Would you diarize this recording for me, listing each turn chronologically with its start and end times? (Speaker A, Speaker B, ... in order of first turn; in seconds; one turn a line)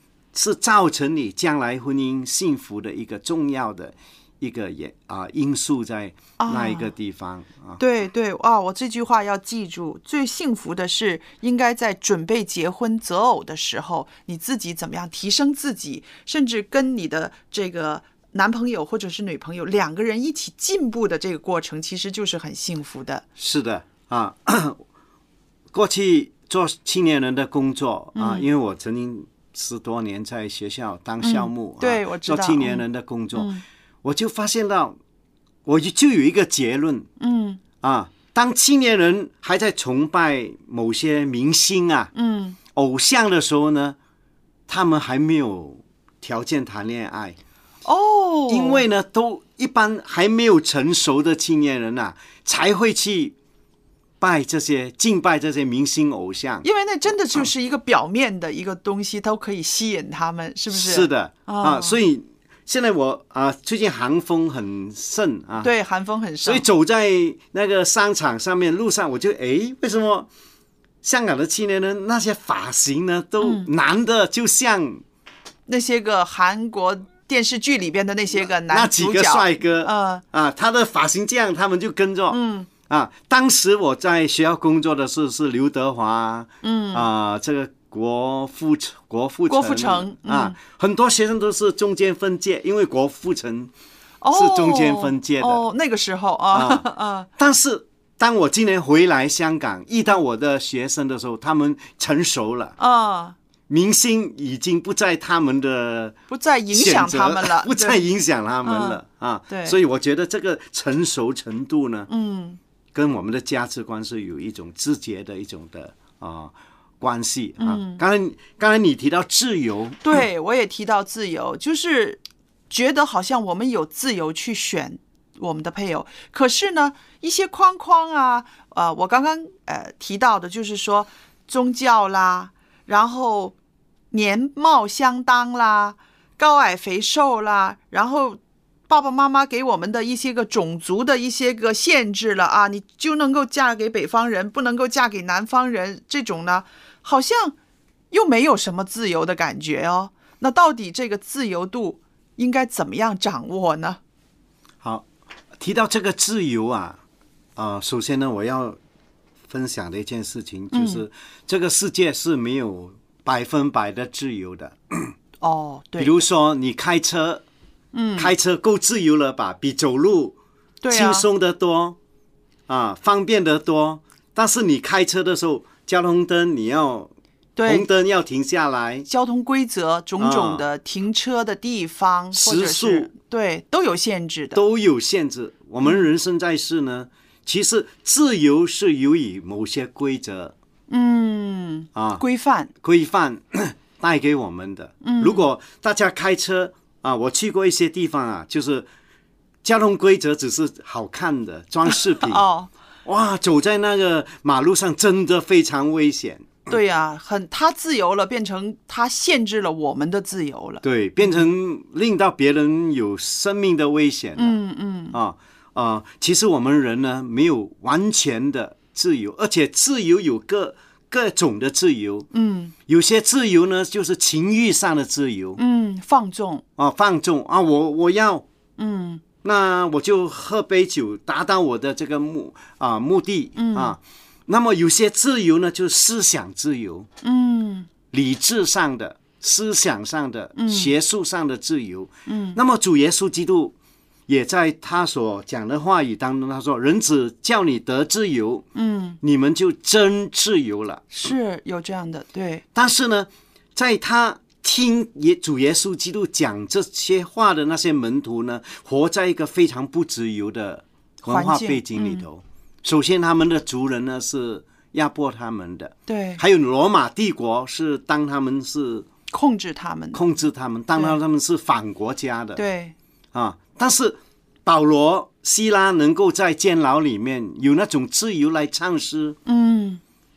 Speaker A: 0.3-7.8
Speaker B: 6.4-6.9
Speaker B: 7.8-23.2
Speaker A: 23.4-24.8
Speaker A: 25.7-33.5
Speaker B: 28.1-28.5
Speaker B: 31.2-33.6
Speaker A: 34.0-35.0
Speaker A: 35.6-37.1
Speaker B: 37.2-37.6
Speaker A: 37.8-42.1
Speaker B: 42.1-42.6
Speaker A: 42.7-44.0
Speaker A: 44.7-47.4
Speaker B: 47.9-48.8
Speaker A: 48.5-53.4
Speaker A: 54.2-56.7
Speaker B: 56.6-62.0
Speaker A: 60.7-65.7
Speaker B: 65.6-66.7
Speaker A: 66.4-70.3
Speaker A: 71.0-75.0
Speaker B: 73.4-73.7
Speaker B: 75.7-80.2
Speaker A: 78.7-93.7
Speaker B: 82.3-82.7
Speaker B: 86.6-87.1
Speaker B: 89.5-90.6
Speaker B: 94.2-97.3
Speaker A: 94.3-95.6
Speaker A: 96.5-96.9
Speaker A: 97.4-102.8
Speaker B: 102.8-103.4
Speaker A: 103.7-106.2
Speaker B: 106.3-108.0
Speaker A: 106.7-112.1
Speaker B: 108.6-109.8
Speaker B: 112.1-112.6
Speaker A: 112.9-120.0
Speaker B: 117.6-118.0
Speaker B: 120.0-133.6
Speaker B: 134.1-147.6
Speaker B: 148.1-154.0
Speaker A: 155.6-157.0
Speaker A: 157.6-158.8
Speaker A: 159.5-165.1
Speaker B: 160.7-161.0
Speaker B: 165.4-166.2
Speaker A: 166.0-167.4
Speaker B: 167.9-168.3
Speaker A: 168.2-170.4
Speaker B: 170.8-171.3
Speaker A: 170.9-172.0
Speaker A: 172.7-177.1
Speaker B: 177.6-177.9
Speaker A: 177.7-179.1
Speaker B: 179.1-184.6
Speaker A: 180.2-180.7
Speaker A: 182.3-183.1
Speaker A: 184.6-190.5
Speaker B: 190.9-192.7
Speaker A: 191.9-192.2
Speaker A: 192.8-198.9
Speaker B: 195.0-195.5
Speaker A: 199.6-202.5
Speaker B: 201.9-202.7
Speaker A: 203.1-206.6
Speaker B: 206.7-211.5
Speaker A: 210.8-214.6
Speaker B: 214.4-215.2
Speaker A: 215.1-222.3
Speaker B: 222.3-222.7
Speaker A: 222.9-225.6
Speaker B: 225.6-226.6
Speaker A: 226.8-228.4
Speaker B: 228.8-229.2
Speaker A: 229.4-237.1
Speaker B: 233.6-234.0
Speaker B: 237.2-237.9
Speaker A: 238.1-243.7
Speaker B: 240.6-240.9
Speaker B: 242.3-242.6
Speaker A: 244.3-248.7
Speaker B: 248.8-249.2
Speaker A: 249.2-251.1
Speaker B: 251.1-252.6
Speaker A: 252.8-269.1
Speaker B: 261.2-262.3
Speaker B: 266.1-266.4
Speaker B: 269.3-270.2
Speaker A: 270.1-272.6
Speaker B: 272.6-272.9
Speaker A: 273.3-279.4
Speaker B: 279.5-280.0